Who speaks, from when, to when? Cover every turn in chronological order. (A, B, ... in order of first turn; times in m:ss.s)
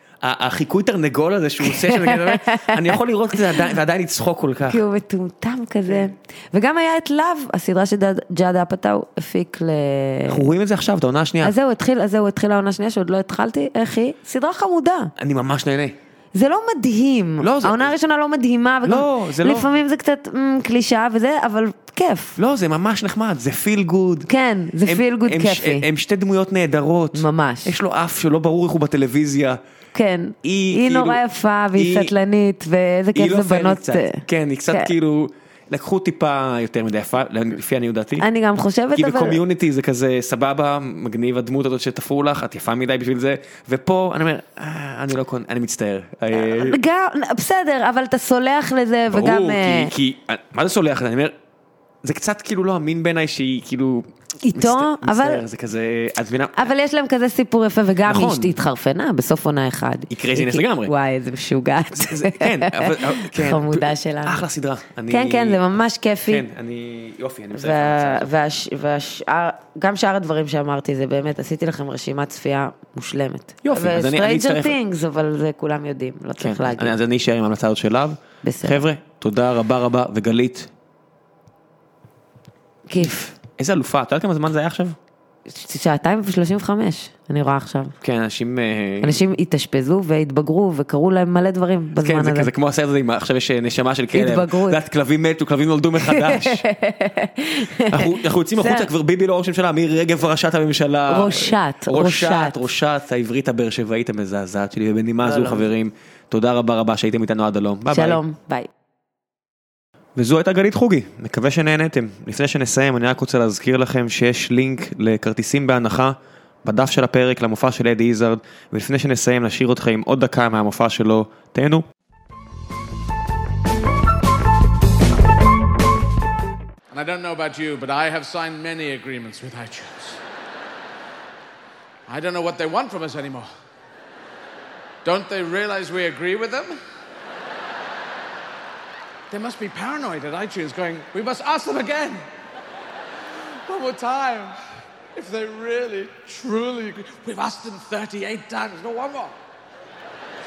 0:00.2-0:04.8 A
0:01.6-0:03.7 B
0:04.7-0:10.5 B
0:10.3-0:11.5 A
0:11.4-0:15.1 B
0:15.2-0:15.9 A
0:16.3-0:22.4 B
0:17.4-0:17.9 A
0:18.8-0:19.7 A
0:22.4-0:24.3 A
0:24.3-0:25.9 B
0:24.8-0:29.6 A
0:27.1-0:27.7 B
0:29.9-0:34.9 B
0:30.4-0:31.2 A
0:31.7-0:32.1 A
0:33.1-0:38.2 A
0:38.2-0:39.4 B
0:38.9-0:46.8 A
0:46.3-0:49.9 B
0:49.1-0:51.3 A
0:52.0-0:56.7 A
0:54.4-0:55.4 B
0:56.5-1:04.4 B
0:58.0-0:58.6 A
1:00.1-1:00.9 A
1:01.9-1:05.6 A
1:05.1-1:06.4 B
1:06.2-1:08.3 A
1:07.5-1:17.0 B
1:13.6-1:14.8 A
1:16.4-1:20.7 A
1:18.4-1:18.8 B
1:22.9-1:23.3 B
1:23.4-1:25.0 A
1:25.5-1:28.0 B
1:28.0-1:29.2 A
1:29.0-1:32.5 B
1:32.0-1:36.6 A
1:34.1-1:34.8 B
1:36.0-1:38.9 B
1:37.8-1:48.2 A
1:41.1-1:42.6 B
1:45.2-1:45.7 B
1:47.9-1:48.7 B
1:50.2-2:01.8 A
2:06.9-2:10.2 C
2:12.1-2:13.5 C
2:15.0-2:16.8 C
2:19.3-2:22.2 C
2:23.6-2:24.6 C
2:25.1-2:29.4 C